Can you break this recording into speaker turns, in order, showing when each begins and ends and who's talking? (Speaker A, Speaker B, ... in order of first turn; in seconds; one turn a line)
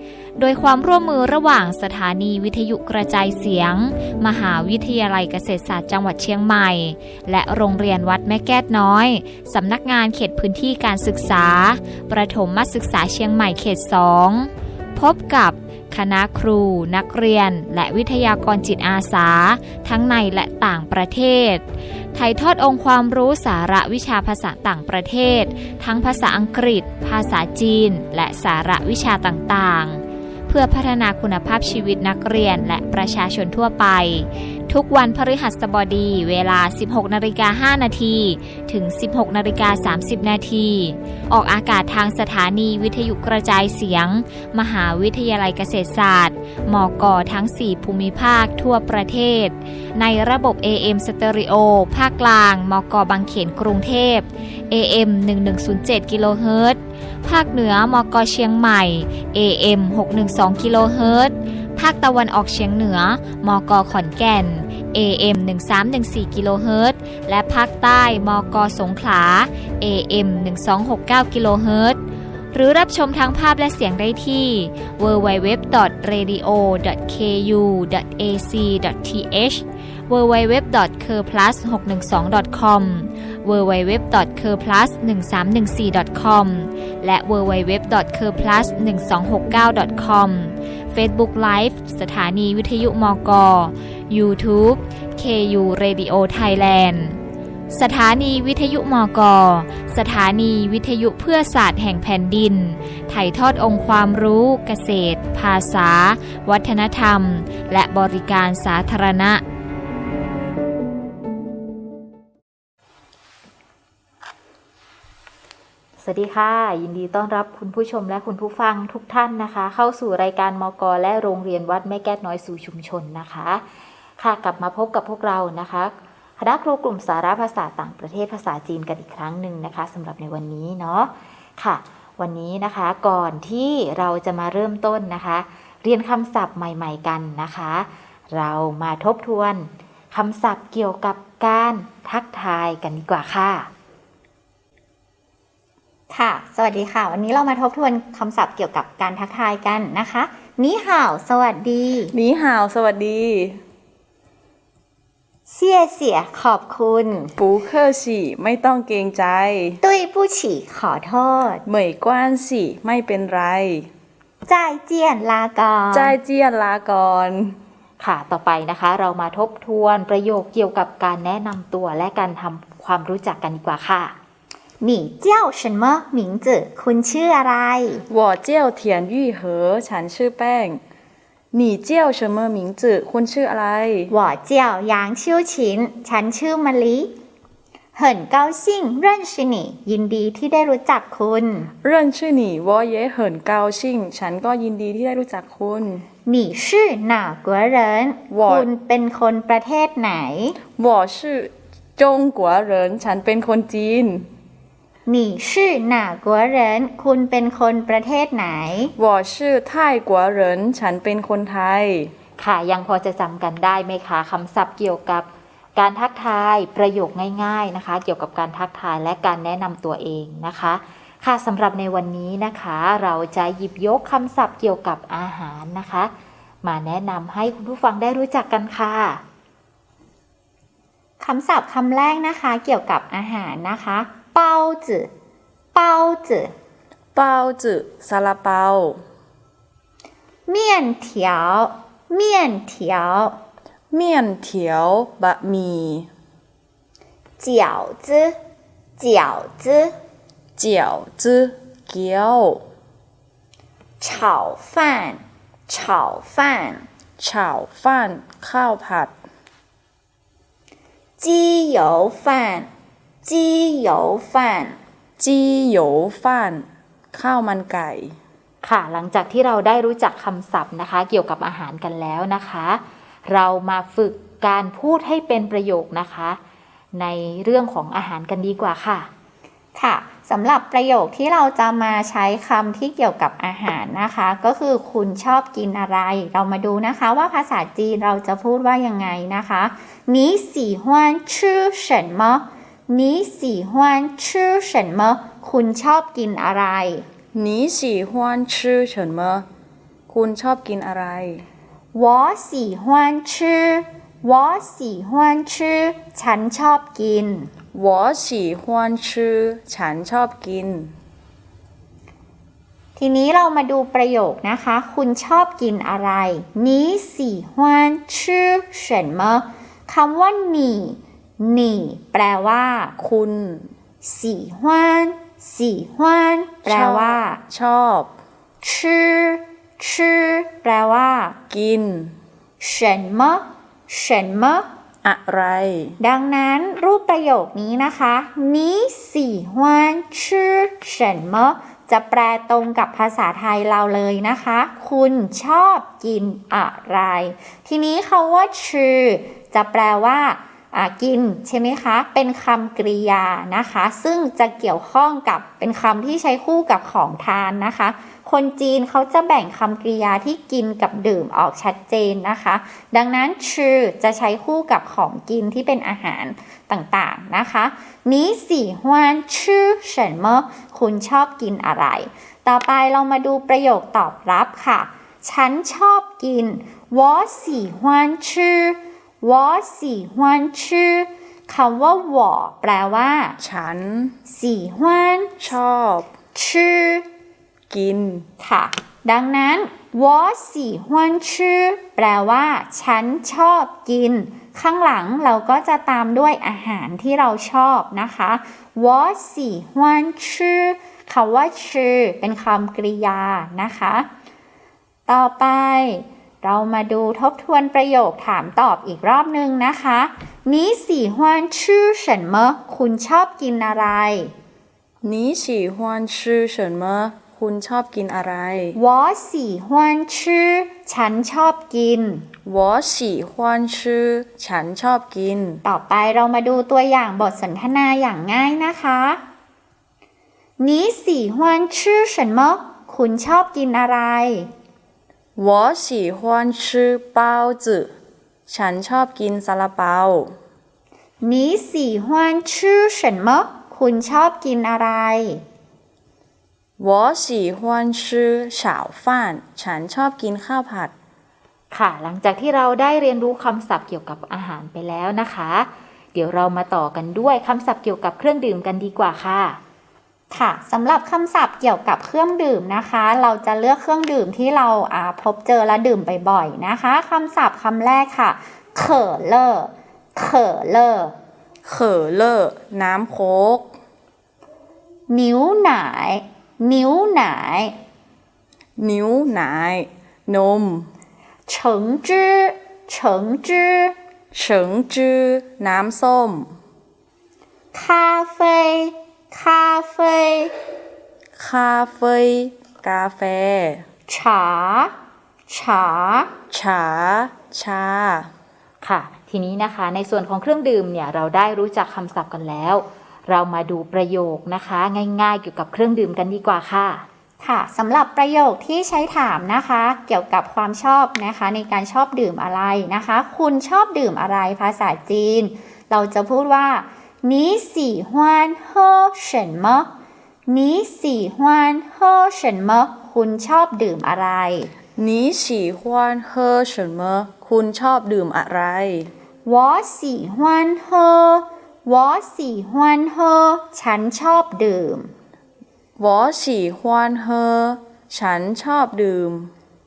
Speaker A: 0.4-72.0
Speaker A: 72.5-97.2
Speaker A: 97.7-109.4
Speaker B: 116.0-123.6
Speaker B: 124.2-143.7
Speaker C: 146.1-152.1
Speaker D: 152.1-153.6
Speaker C: 155.5-157.3
Speaker D: 157.4-159.8
Speaker C: 159.8-161.6
Speaker D: 161.7-163.9
Speaker C: 164.5-166.1
Speaker D: 165.9-167.6
Speaker B: 168.0-174.2
Speaker C: 174.8-178.1
Speaker D: 178.1-180.8
Speaker D: 181.5-184.1
Speaker C: 184.1-187.1
Speaker C: 188.0-191.7
Speaker D: 191.8-196.1
Speaker C: 196.3-200.6
Speaker D: 198.3-198.7
Speaker D: 200.8-204.3
Speaker C: 205.1-208.9
Speaker D: 209.0-212.1
Speaker B: 212.4-226.1
Speaker B: 226.6-229.2
Speaker C: 231.2-235.1
Speaker C: 235.8-236.5
Speaker D: 237.2-239.0
Speaker C: 240.5-243.4
Speaker D: 243.9-246.1
Speaker C: 247.4-248.4
Speaker C: 249.0-249.9
Speaker D: 250.6-252.6
Speaker C: 254.0-256.9
Speaker D: 257.2-259.1
Speaker C: 261.2-262.7
Speaker C: 263.2-264.8
Speaker D: 265.2-268.2
Speaker B: 268.6-276.4
Speaker B: 276.9-279.1
Speaker C: 279.8-297.1
Speaker D: 297.3-299.5
Speaker D: 300.1-301.5
Speaker C: 301.9-307.5
Speaker D: 307.7-310.9
Speaker C: 313.0-322.9
Speaker D: 323.0-323.7
Speaker C: 324.0-327.4
Speaker D: 326.7-328.1
Speaker C: 328.6-331.4
Speaker D: 331.5-332.2
Speaker C: 332.6-334.7
Speaker D: 335.0-336.0
Speaker C: 336.0-383.4
Speaker D: 383.4-384.1
Speaker C: 384.3-385.5
Speaker D: 385.4-386.1
Speaker C: 386.4-387.1
Speaker D: 387.7-388.3
Speaker C: 388.4-404.1
Speaker C: 405.1-414.3
Speaker D: 415.0-418.8
Speaker C: 418.8-422.2
Speaker D: 422.5-425.6
Speaker C: 425.6-429.2
Speaker C: 430.6-434.5
Speaker D: 435.4-437.9
Speaker D: 438.5-440.4
Speaker C: 441.2-445.4
Speaker D: 446.8-450.9
Speaker B: 451.7-459.6
Speaker C: 460.3-471.1
Speaker D: 471.6-473.7
Speaker C: 475.1-477.8
Speaker D: 478.8-480.9
Speaker C: 481.5-483.9
Speaker D: 484.3-486.5
Speaker C: 487.7-490.6
Speaker D: 491.4-493.9
Speaker C: 494.1-494.9
Speaker C: 495.5-496.3
Speaker D: 496.5-498.3
Speaker B: 498.8-507.1
Speaker C: 507.4-519.9
Speaker C: 520.5-524.7
Speaker D: 525.0-529.1
Speaker C: 529.5-535.1
Speaker D: 536.0-539.5